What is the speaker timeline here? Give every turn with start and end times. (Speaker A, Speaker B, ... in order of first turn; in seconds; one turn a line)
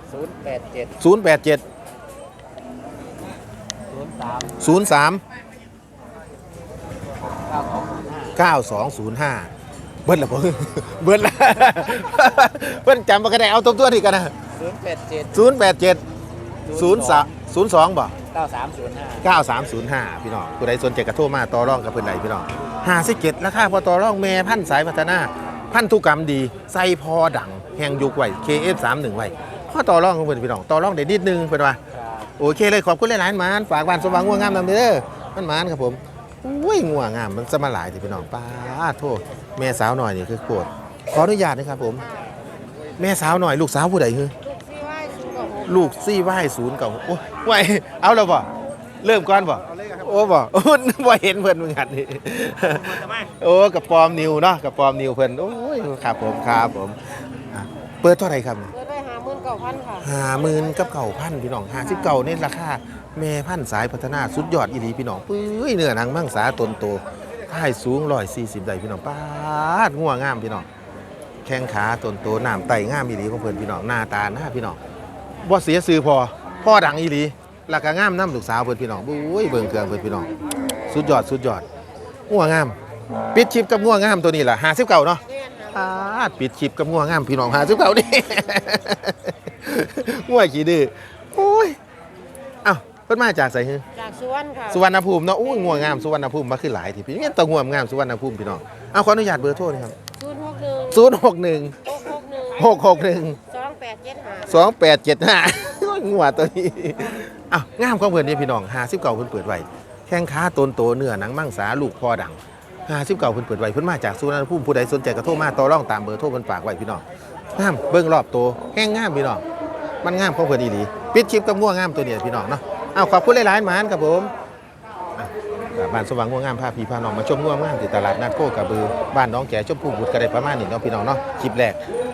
Speaker A: 0.1-0.7
Speaker B: 1.0-1.6
Speaker A: 3.9-4.5
Speaker B: 4.6-5.2
Speaker B: 8.3-9.5
Speaker B: 10.1-14.3
Speaker A: 14.6-14.9
Speaker B: 15.3-16.0
Speaker B: 16.7-18.2
Speaker A: 18.3-19.2
Speaker B: 19.2-31.8
Speaker B: 32.4-42.1
Speaker B: 43.0-44.3
Speaker C: 44.5-45.9
Speaker B: 45.7-48.5
Speaker B: 49.0-58.7
Speaker C: 58.7-60.1
Speaker B: 60.0-70.7
Speaker B: 71.5-74.8
Speaker B: 75.4-80.3
Speaker B: 80.9-81.7
Speaker B: 82.3-82.8
Speaker B: 83.3-91.8
Speaker B: 92.6-93.8
Speaker C: 94.0-94.9
Speaker B: 94.7-100.0
Speaker C: 100.2-101.1
Speaker B: 100.9-101.9
Speaker C: 101.8-102.8
Speaker B: 102.6-103.4
Speaker C: 103.4-104.7
Speaker B: 104.5-117.0
Speaker B: 117.5-119.4
Speaker B: 120.0-124.3
Speaker B: 125.2-131.8